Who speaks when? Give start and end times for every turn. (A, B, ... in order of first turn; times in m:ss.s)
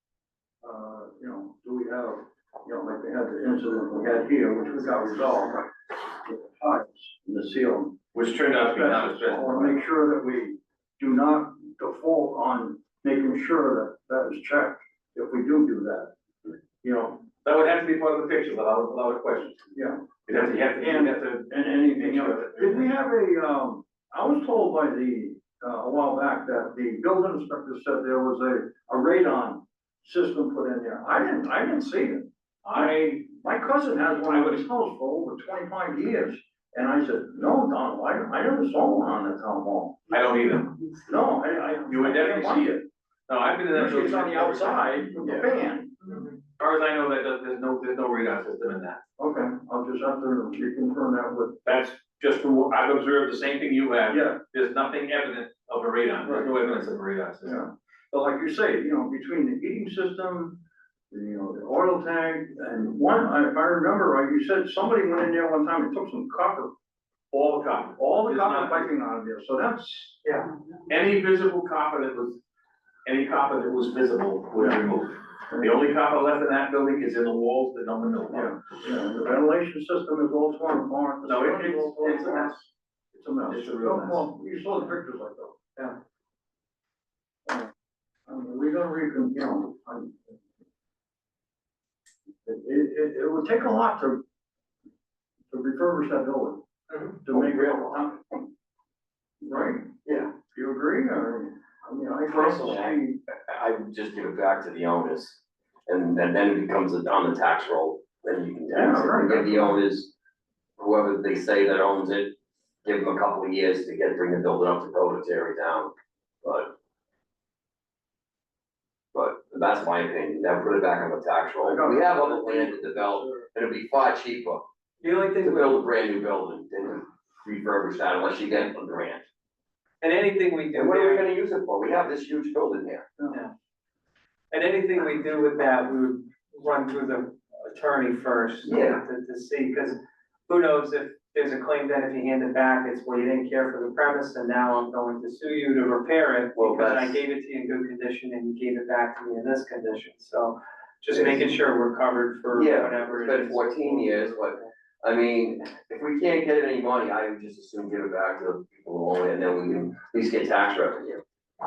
0:00.6-0:05.7 A
0:06.2-0:07.9 A
0:08.1-0:09.8 B
0:08.5-0:16.1 A
0:16.8-0:17.2 A
0:17.3-0:19.6 B
0:19.7-0:20.1 A
0:20.2-0:22.9 B
0:20.7-0:40.0 A
0:32.6-0:33.2 B
0:34.3-0:34.6 B
0:40.1-0:40.7 B
0:41.0-0:42.8 A
0:41.9-0:45.4 B
0:43.7-0:46.0 A
0:46.1-0:49.0 B
0:49.2-0:51.6 A
0:51.6-0:57.6 B
0:54.1-0:54.4 A
0:56.2-0:56.5 A
0:57.4-1:00.6 A
1:01.1-1:06.7 A
1:07.3-1:08.9 B
1:07.9-1:10.2 A
1:10.9-1:12.4 B
1:13.0-1:18.6 B
1:18.3-1:22.5 A
1:21.2-1:22.6 B
1:23.1-1:25.8 A
1:23.5-1:24.3 B
1:28.3-1:30.2 A
1:32.4-1:34.2 A
1:35.5-1:36.6 A
1:37.2-1:38.4 A
1:37.3-1:38.0 C
1:39.4-1:43.2 A
1:40.0-1:40.3 C
1:42.3-1:50.1 C
1:48.7-1:49.8 A
1:50.8-1:52.3 C
1:52.8-1:55.9 C
1:56.4-1:56.7 C
1:59.1-2:04.6 C
2:01.6-2:03.4 A
2:05.0-2:05.9 D
2:05.4-2:09.2 C
2:10.0-2:11.2 D
2:10.7-2:13.0 C
2:14.5-2:34.6 D
2:18.6-2:19.0 C
2:26.5-2:27.2 C
2:31.1-2:31.4 C
2:32.5-2:41.2 C